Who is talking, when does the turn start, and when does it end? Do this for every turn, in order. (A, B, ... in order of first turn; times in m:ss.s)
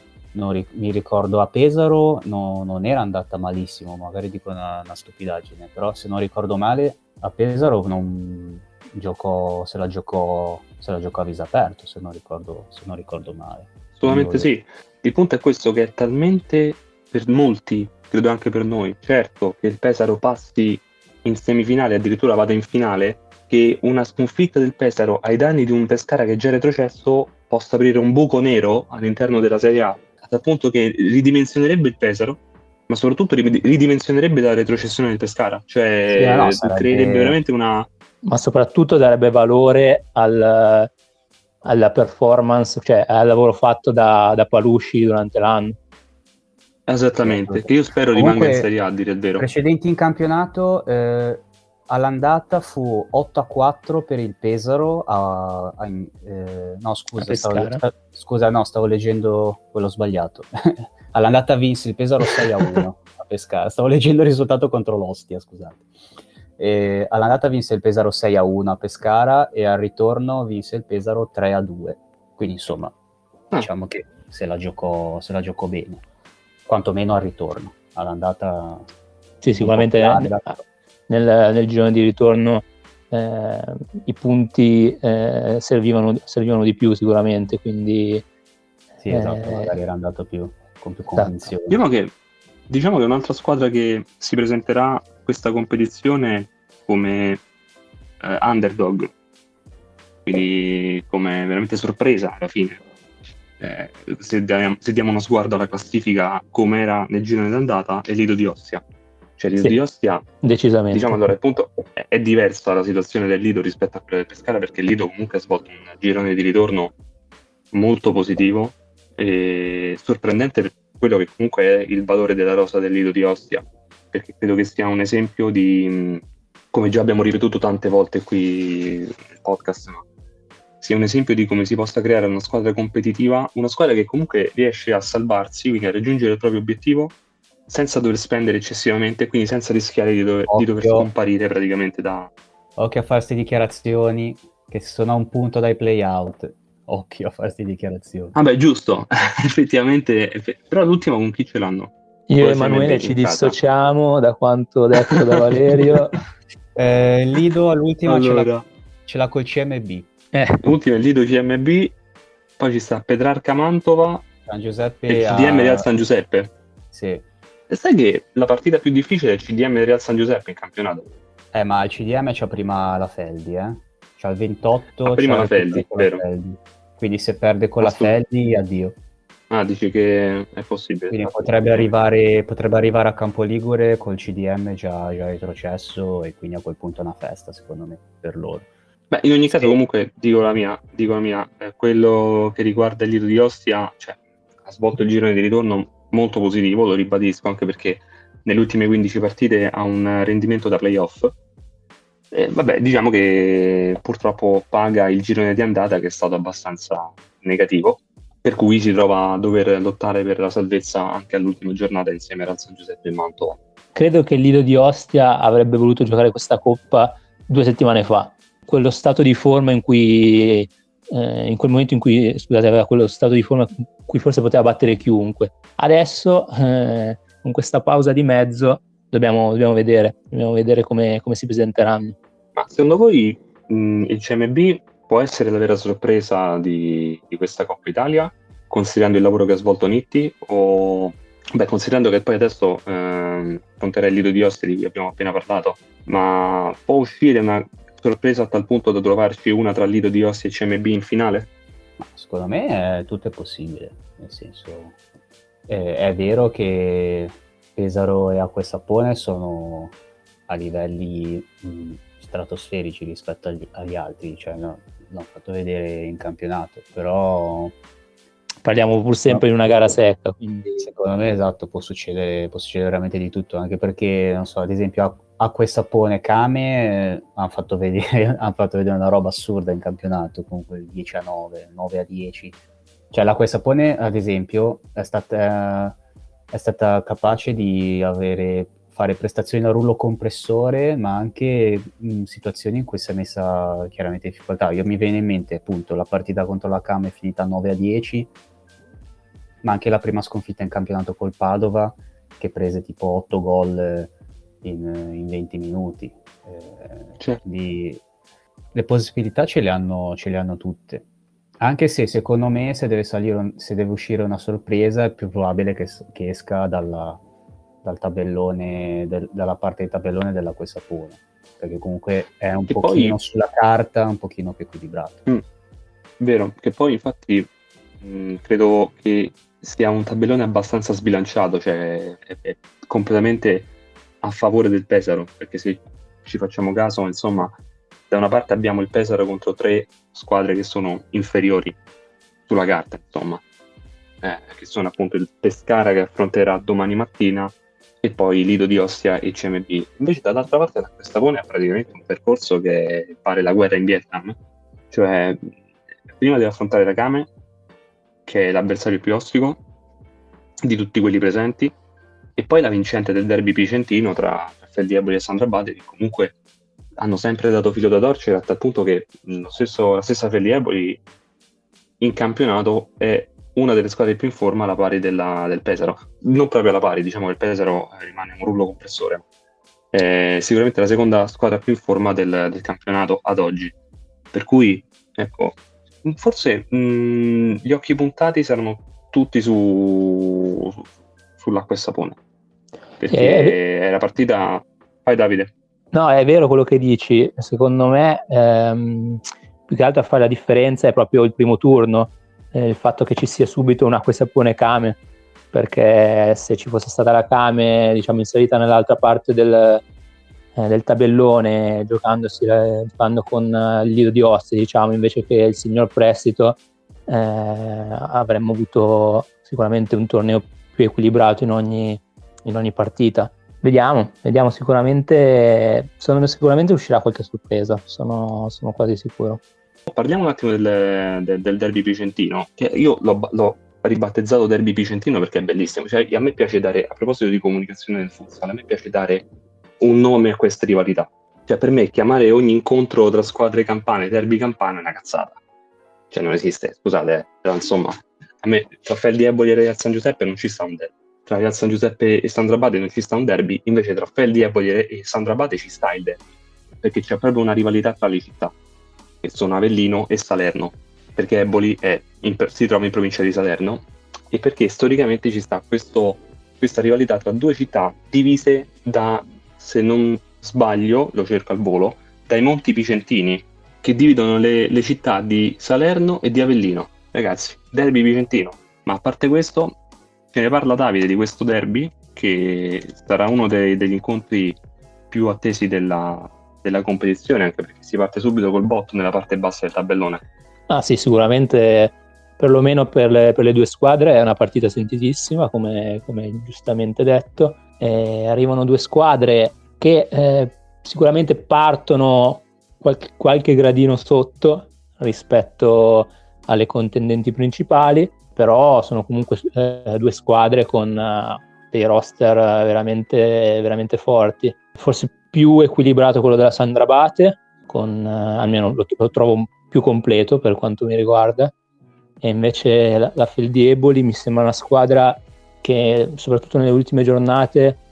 0:00.3-0:14.5 A
0:14.0-0:37.9 B
0:36.1-0:37.4 A
0:38.2-0:40.9 C
0:41.6-0:45.8 C
0:46.9-0:49.4 B
0:47.2-0:48.7 A
0:49.4-1:05.8 A
0:57.2-0:57.8 C
1:06.6-1:12.9 A
1:13.6-1:16.0 A
1:16.7-1:18.8 A
1:19.4-1:20.6 C
1:19.6-1:20.5 A
1:21.1-1:28.2 C
1:29.0-1:31.8 A
1:29.1-1:29.7 C
1:31.2-1:31.5 C
1:31.7-1:32.1 B
1:32.7-1:37.4 B
1:38.2-1:39.1 B
1:40.2-1:42.8 B
1:43.6-1:48.8 B
1:49.4-1:50.2 B
1:50.4-1:51.2 C
1:50.9-1:56.9 B
1:57.7-2:10.0 B
2:10.8-2:17.1 B
2:17.7-2:22.3 B
2:20.5-2:21.1 A
2:22.8-2:28.3 A
2:28.3-2:33.6 B
2:32.3-2:36.1 C
2:35.1-2:36.0 B
2:36.8-2:38.5 A
2:38.0-2:38.6 B
2:39.0-2:40.1 A
2:40.3-2:40.6 C
2:40.6-2:41.9 B
2:42.6-2:44.3 B
2:44.5-2:45.9 A
2:45.1-2:46.5 B
2:46.9-2:47.2 A
2:47.7-2:51.0 B
2:51.5-2:59.0 A
2:55.0-2:56.2 B
2:57.8-2:58.1 B
2:59.5-3:01.8 B
3:01.1-3:08.7 A
3:09.1-3:21.3 B
3:22.3-3:33.6 B
3:33.9-3:52.2 C
3:52.6-4:11.5 B
4:12.0-4:15.0 A
4:15.7-4:19.9 A
4:20.5-4:27.8 A
4:28.6-4:30.9 C
4:30.8-4:42.6 A
4:43.1-4:46.0 A
4:46.5-4:58.3 A
4:59.6-5:04.1 A
5:04.6-5:08.0 A
5:08.7-5:11.0 A
5:11.6-5:17.2 A
5:17.8-5:25.2 A
5:22.7-5:23.2 B
5:26.2-5:27.5 B
5:28.0-5:33.7 B
5:34.2-5:37.5 B
5:38.1-5:41.8 B
5:42.5-5:43.4 B
5:44.2-5:54.4 B
5:54.9-5:55.5 B
5:56.1-5:57.3 B
5:58.2-5:59.6 B
6:00.6-6:01.7 B
6:02.4-6:06.3 B
6:07.0-6:11.0 B
6:12.0-6:19.2 B
6:19.9-6:23.7 B
6:24.3-6:30.8 B
6:31.4-6:32.2 B
6:33.0-6:35.5 B
6:33.1-6:33.6 C
6:35.9-6:45.0 C
6:45.5-6:49.8 C
6:50.6-7:09.4 C
7:09.9-7:19.2 B
7:19.8-7:25.4 B
7:26.1-7:36.2 B
7:36.8-7:38.5 B
7:39.2-7:59.7 B
8:00.3-8:04.6 B
8:05.1-8:10.2 B
8:10.7-8:41.5 C
8:42.2-8:47.8 C